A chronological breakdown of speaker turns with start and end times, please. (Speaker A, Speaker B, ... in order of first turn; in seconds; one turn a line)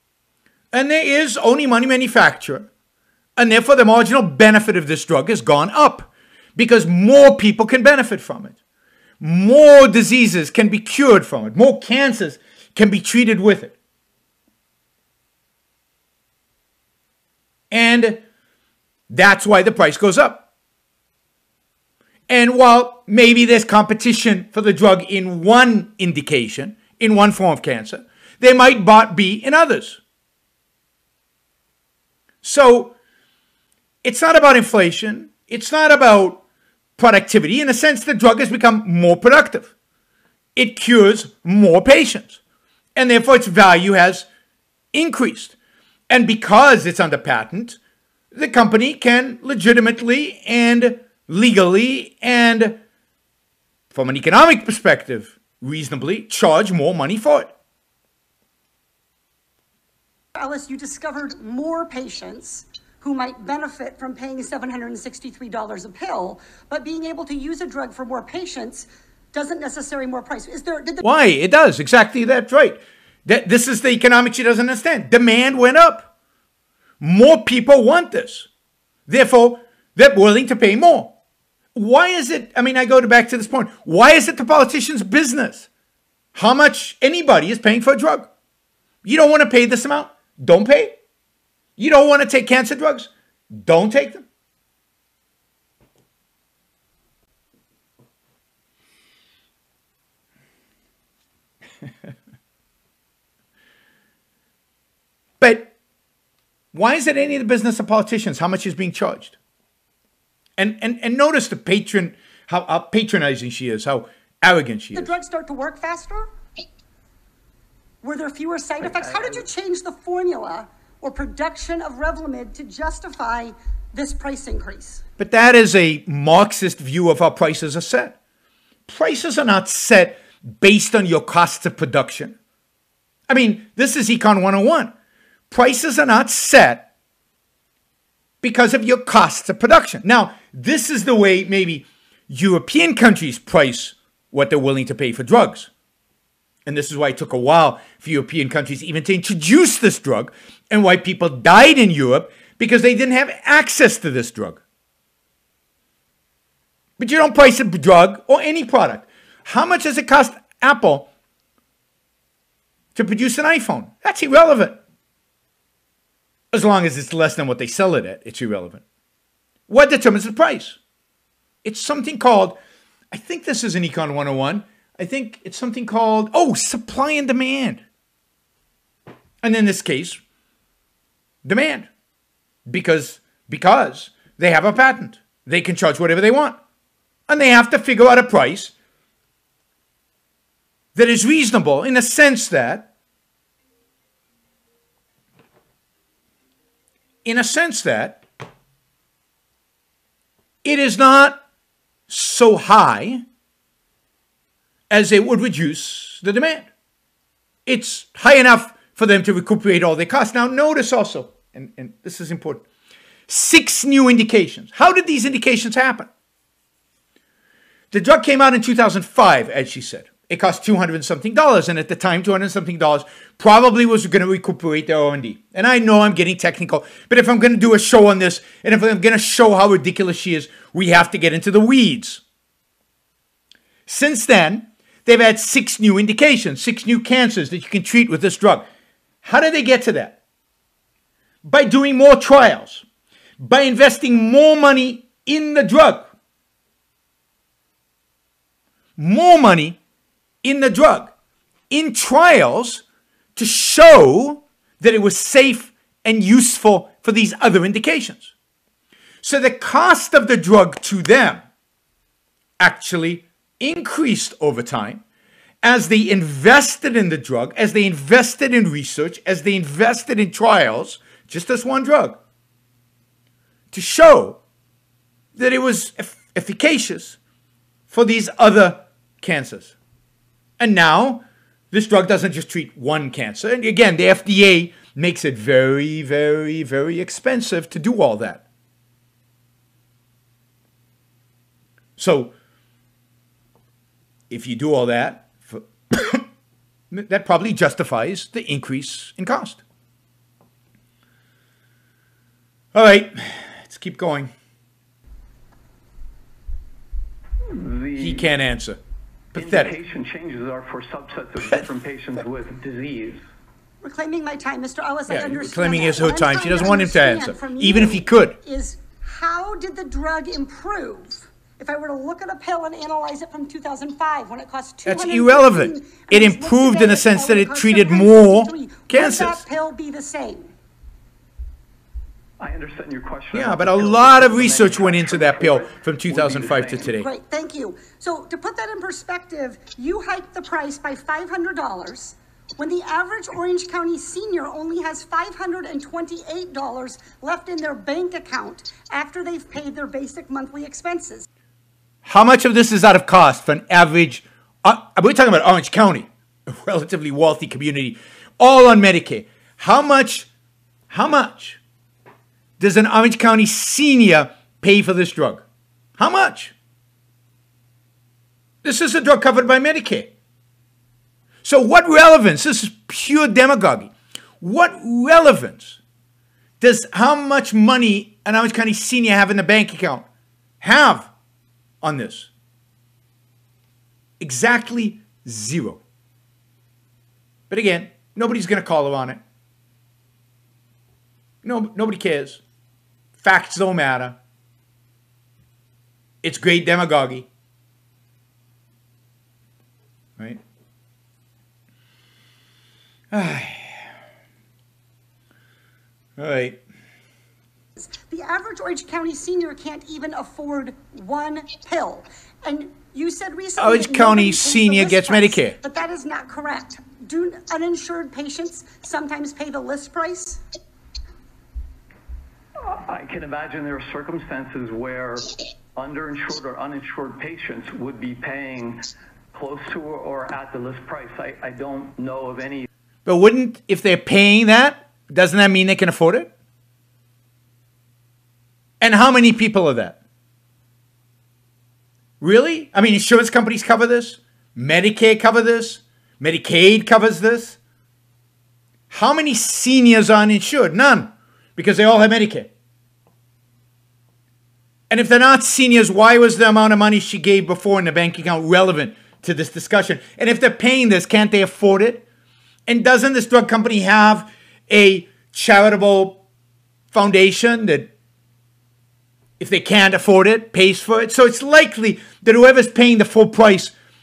Speaker A: 0.7-2.7
Speaker A: 3.4-8.6
Speaker A: 9.2-13.8
Speaker A: 17.7-18.2
Speaker A: 19.1-20.4
Speaker A: 22.3-30.0
Speaker A: 32.4-32.9
Speaker A: 34.0-36.4
Speaker A: 37.0-39.7
Speaker A: 40.5-42.4
Speaker A: 43.0-44.3
Speaker A: 44.9-45.5
Speaker A: 46.1-47.8
Speaker A: 48.3-52.8
Speaker A: 53.9-57.5
Speaker B: 60.3-71.0
Speaker A: 71.0-76.1
Speaker A: 77.0-78.5
Speaker A: 79.1-81.1
Speaker A: 81.7-85.7
Speaker A: 86.3-88.3
Speaker A: 89.0-91.0
Speaker A: 91.8-94.2
Speaker A: 105.4-105.7
Speaker A: 106.7-109.3
Speaker A: 110.6-115.1
Speaker B: 114.9-116.3
Speaker B: 118.0-125.0
Speaker C: 118.8-119.4
Speaker A: 125.2-128.2
Speaker A: 128.9-132.3
Speaker A: 133.3-134.9
Speaker A: 135.5-136.9
Speaker A: 138.4-145.7
Speaker A: 146.7-154.6
Speaker A: 157.0-161.1
Speaker A: 162.9-164.8
Speaker A: 166.5-168.8
Speaker A: 169.7-170.8
Speaker A: 171.6-172.6
Speaker A: 173.1-177.8
Speaker A: 179.4-180.2
Speaker A: 181.4-181.9
Speaker A: 182.7-186.6
Speaker A: 187.3-188.7
Speaker A: 190.9-192.9
Speaker A: 197.2-198.2
Speaker A: 200.6-201.4
Speaker A: 202.1-203.2
Speaker A: 204.9-206.7
Speaker A: 207.7-212.6
Speaker A: 213.3-216.1
Speaker A: 217.9-232.2
Speaker A: 233.9-238.7
Speaker A: 239.2-240.2
Speaker A: 241.4-242.8
Speaker A: 243.4-246.1
Speaker A: 249.0-249.8
Speaker A: 250.4-251.1
Speaker A: 251.7-252.8
Speaker A: 253.3-258.3
Speaker A: 259.2-261.4
Speaker A: 262.6-265.0
Speaker A: 265.6-272.2
Speaker A: 273.7-274.4
Speaker A: 275.4-277.2
Speaker A: 277.9-279.7
Speaker A: 280.6-288.4
Speaker A: 292.0-292.3
Speaker A: 294.3-296.2
Speaker A: 296.9-299.6
Speaker A: 302.7-304.3
Speaker C: 307.4-308.3
Speaker A: 308.0-308.8
Speaker A: 309.3-309.8
Speaker C: 309.3-313.2
Speaker B: 313.8-330.5
Speaker A: 315.1-318.4
Speaker A: 324.8-329.4
Speaker C: 332.4-336.9
Speaker A: 333.3-337.1
Speaker B: 336.9-351.2
Speaker A: 352.0-360.3
Speaker A: 360.9-361.6
Speaker A: 362.6-365.4
Speaker A: 366.0-366.5
Speaker A: 368.6-370.1
Speaker A: 371.4-375.8
Speaker A: 376.6-380.1
Speaker A: 380.6-381.1
Speaker A: 381.8-382.3
Speaker A: 384.2-385.8
Speaker A: 387.5-389.2
Speaker A: 391.4-392.4
Speaker A: 393.2-394.2
Speaker A: 396.2-397.3
Speaker A: 403.1-403.9
Speaker A: 406.2-406.6
Speaker B: 407.8-420.4
Speaker A: 413.6-415.6
Speaker C: 422.6-432.7
Speaker A: 433.1-436.3
Speaker A: 438.8-440.0
Speaker A: 442.2-447.6
Speaker A: 448.9-452.5
Speaker A: 454.9-462.0
Speaker A: 462.7-466.2
Speaker A: 466.9-467.9
Speaker A: 469.4-473.7